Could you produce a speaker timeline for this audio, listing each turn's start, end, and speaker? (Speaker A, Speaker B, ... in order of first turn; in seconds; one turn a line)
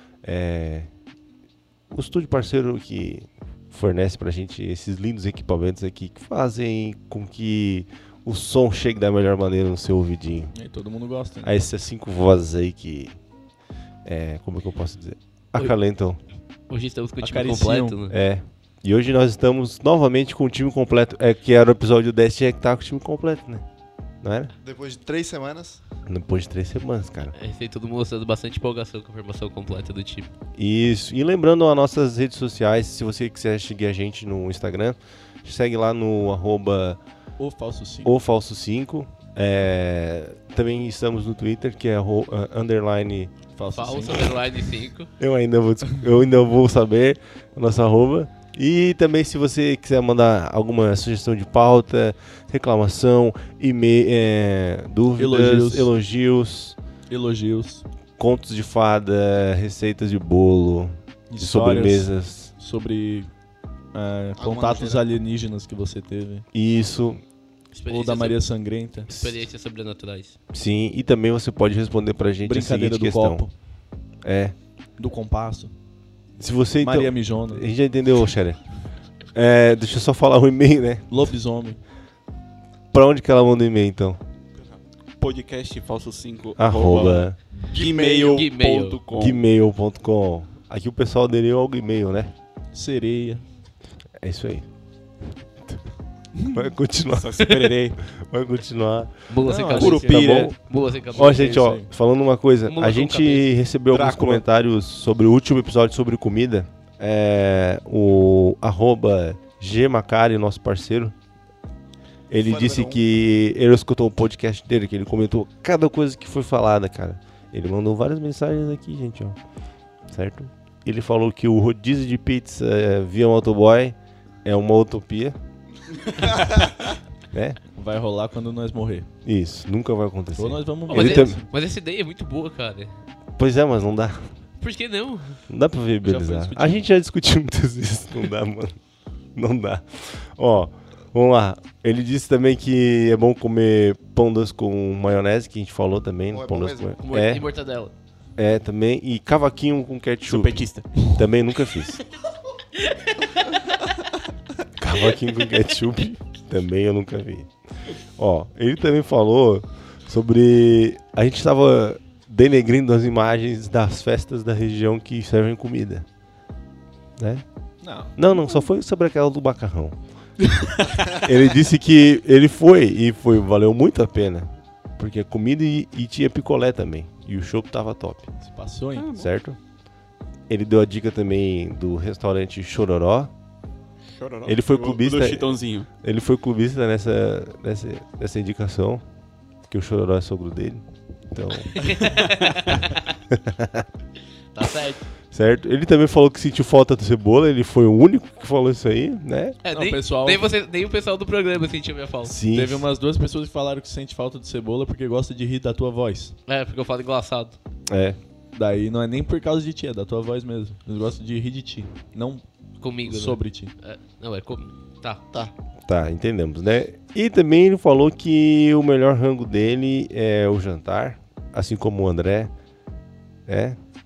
Speaker A: 0.2-0.9
Speaker A: 1.9-10.5
Speaker B: 10.5-11.6
Speaker A: 11.4-13.1
Speaker A: 14.0-16.2
Speaker C: 16.7-18.1
Speaker B: 17.2-18.0
Speaker A: 18.1-23.6
Speaker A: 24.2-24.5
Speaker D: 24.6-25.8
Speaker A: 26.1-27.3
Speaker C: 27.3-30.3
Speaker A: 30.6-37.0
Speaker B: 37.4-38.1
Speaker A: 38.0-43.3
Speaker B: 43.5-44.4
Speaker C: 43.7-45.1
Speaker A: 45.2-56.8
Speaker B: 55.1-55.9
Speaker B: 57.1-57.8
Speaker A: 58.2-62.5
Speaker B: 61.3-63.3
Speaker B: 63.9-66.4
Speaker D: 64.4-65.1
Speaker A: 66.5-67.2
Speaker C: 67.7-68.4
Speaker B: 67.9-69.1
Speaker C: 69.1-70.3
Speaker A: 69.1-69.4
Speaker A: 70.5-73.5
Speaker B: 72.4-73.5
Speaker A: 74.2-74.5
Speaker B: 75.0-75.7
Speaker A: 76.4-78.6
Speaker B: 76.8-77.7
Speaker A: 79.3-81.1
Speaker B: 81.1-81.8
Speaker A: 82.9-84.2
Speaker E: 84.6-89.4
Speaker A: 86.6-87.4
Speaker D: 87.7-88.5
Speaker C: 88.3-89.0
Speaker A: 89.1-92.3
Speaker B: 92.7-93.4
Speaker A: 94.2-94.7
Speaker A: 96.5-97.5
Speaker E: 97.1-98.0
Speaker A: 98.1-99.2
Speaker C: 99.3-101.6
Speaker B: 99.4-101.9
Speaker E: 99.7-100.5
Speaker A: 100.0-100.5
Speaker A: 101.1-111.1
Speaker C: 102.7-103.6
Speaker E: 103.9-104.4
Speaker A: 112.3-119.4
Speaker D: 112.3-113.0
Speaker A: 120.1-125.3
Speaker A: 127.3-127.6
Speaker B: 127.8-129.1
Speaker A: 129.2-131.4
Speaker B: 130.3-131.5
Speaker C: 130.9-132.9
Speaker A: 133.4-134.3
Speaker C: 134.6-135.4
Speaker A: 135.5-138.8
Speaker B: 136.0-136.8
Speaker A: 139.3-147.5
Speaker D: 146.3-147.0
Speaker C: 147.0-147.9
Speaker A: 148.4-152.0
Speaker E: 150.2-151.1
Speaker C: 152.8-153.6
Speaker A: 154.8-157.5
Speaker A: 158.2-166.1
Speaker A: 167.2-167.4
Speaker B: 167.8-168.1
Speaker A: 168.1-170.0
Speaker A: 171.1-178.3
Speaker B: 178.4-179.1
Speaker E: 178.9-179.3
Speaker A: 179.2-179.6
Speaker A: 180.5-183.3
Speaker E: 184.1-185.9
Speaker A: 184.4-189.0
Speaker A: 189.7-192.1
Speaker C: 191.7-192.9
Speaker A: 193.3-193.8
Speaker C: 194.5-195.1
Speaker A: 195.2-199.6
Speaker C: 199.6-202.3
Speaker B: 199.7-200.5
Speaker A: 202.2-202.8
Speaker B: 202.5-206.3
Speaker C: 206.5-207.6
Speaker A: 207.9-208.2
Speaker B: 208.5-212.4
Speaker C: 212.8-215.2
Speaker B: 213.0-213.7
Speaker A: 215.8-222.5
Speaker A: 223.5-223.8